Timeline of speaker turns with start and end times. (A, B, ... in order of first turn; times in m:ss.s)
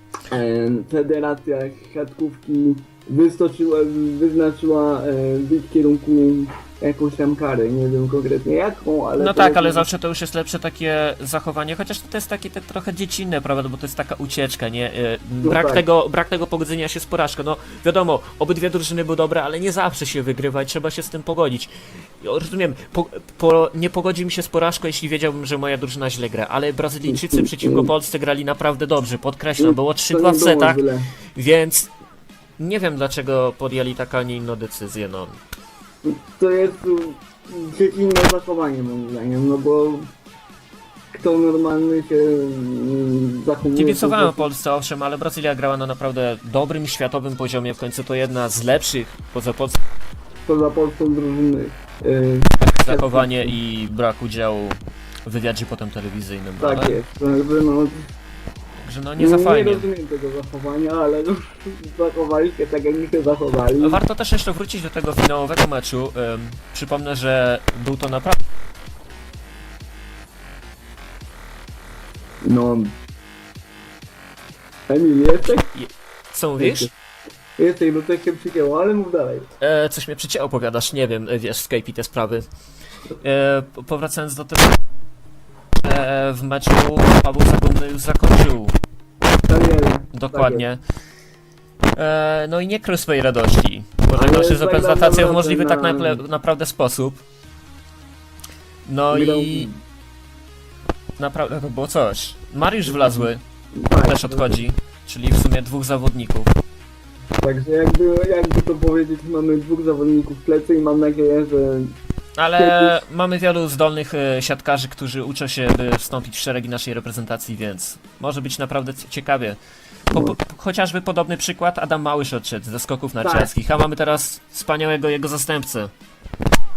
0:00.3-0:09.9 A
0:09.2-0:30.8 B
0:15.4-0:15.8 A
0:27.0-0:27.9 A
0:29.6-0:31.1 A
0:31.3-0:31.9 B
0:32.6-0:35.3 B
0:36.0-0:40.1 A
0:41.1-0:44.5 A
0:43.7-0:49.8 B
0:50.4-0:53.6 A
0:52.5-0:57.0 B
0:56.6-0:58.1 A
0:58.8-0:59.9 B
0:59.2-1:04.0 A
1:03.8-1:08.4 B
1:12.4-1:12.9 A
1:14.9-1:15.7 A
1:15.4-1:16.9 B
1:16.6-1:16.9 A
1:17.6-1:19.5 A
1:19.6-1:22.5 B
1:23.2-1:24.8 B
1:25.8-1:28.7 B
1:29.5-1:30.6 A
1:30.1-1:30.8 B
1:32.0-1:37.2 B
1:34.1-1:36.2 A
1:38.8-1:39.7 B
1:39.1-1:39.8 A
1:41.2-1:43.4 B
1:42.9-1:43.2 A
1:43.7-1:44.5 A
1:44.0-1:46.5 B
1:47.4-1:52.0 A
1:52.4-1:59.6 B
1:52.5-1:53.0 A
2:00.1-2:00.4 A
2:00.1-2:05.9 B
2:03.2-2:03.5 A